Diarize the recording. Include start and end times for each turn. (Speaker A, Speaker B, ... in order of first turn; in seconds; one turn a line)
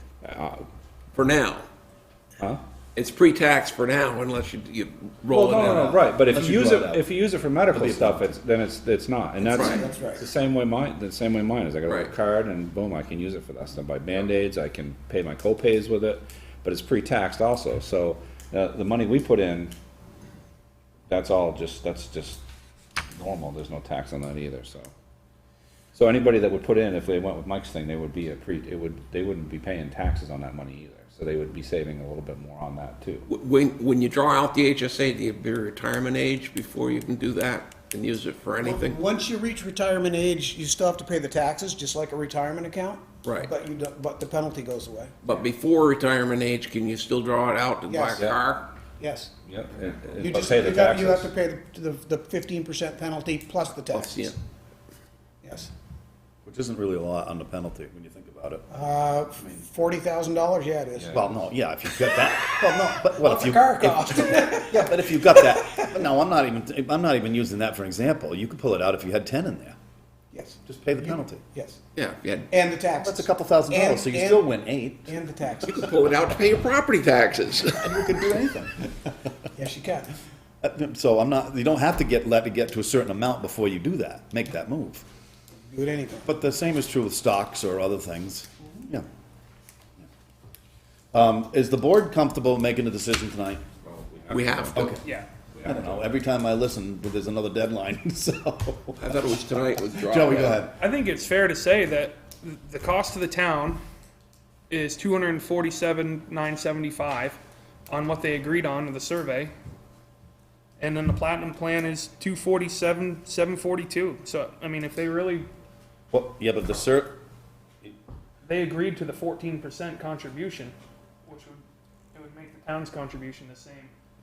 Speaker A: 0.2-0.6
Speaker B: 1.1-1.6
Speaker B: 2.9-6.0
Speaker A: 5.3-19.7
Speaker C: 5.5-7.1
Speaker C: 7.7-8.3
Speaker D: 9.4-10.2
Speaker B: 9.5-9.9
Speaker B: 11.8-12.1
Speaker A: 21.1-22.4
Speaker A: 23.1-24.9
Speaker A: 25.9-33.2
Speaker B: 33.2-39.0
Speaker D: 38.6-45.1
Speaker B: 43.2-43.5
Speaker B: 45.2-48.7
Speaker D: 47.9-48.2
Speaker D: 49.0-49.3
Speaker A: 49.4-51.3
Speaker D: 50.2-54.3
Speaker B: 53.9-54.4
Speaker D: 55.4-55.7
Speaker C: 56.4-58.6
Speaker D: 58.7-61.2
Speaker C: 61.1-69.8
Speaker D: 63.2-66.0
Speaker D: 70.3-71.8
Speaker C: 70.6-71.4
Speaker B: 71.9-72.5
Speaker D: 72.5-74.5
Speaker C: 73.0-75.1
Speaker D: 75.0-75.8
Speaker B: 75.6-78.0
Speaker C: 77.8-78.9
Speaker D: 79.5-80.1
Speaker C: 80.6-85.0
Speaker D: 85.7-86.2
Speaker C: 86.2-89.0
Speaker C: 91.1-93.6
Speaker A: 93.8-94.9
Speaker B: 94.3-94.9
Speaker C: 94.7-95.0
Speaker A: 95.5-96.0
Speaker C: 95.6-99.4
Speaker B: 99.0-100.6
Speaker C: 100.0-100.7
Speaker E: 100.8-103.8
Speaker E: 104.7-107.4
Speaker E: 107.9-109.5
Speaker E: 110.8-115.5
Speaker C: 116.1-117.2
Speaker E: 118.4-120.7
Speaker E: 121.2-121.6
Speaker E: 122.1-123.9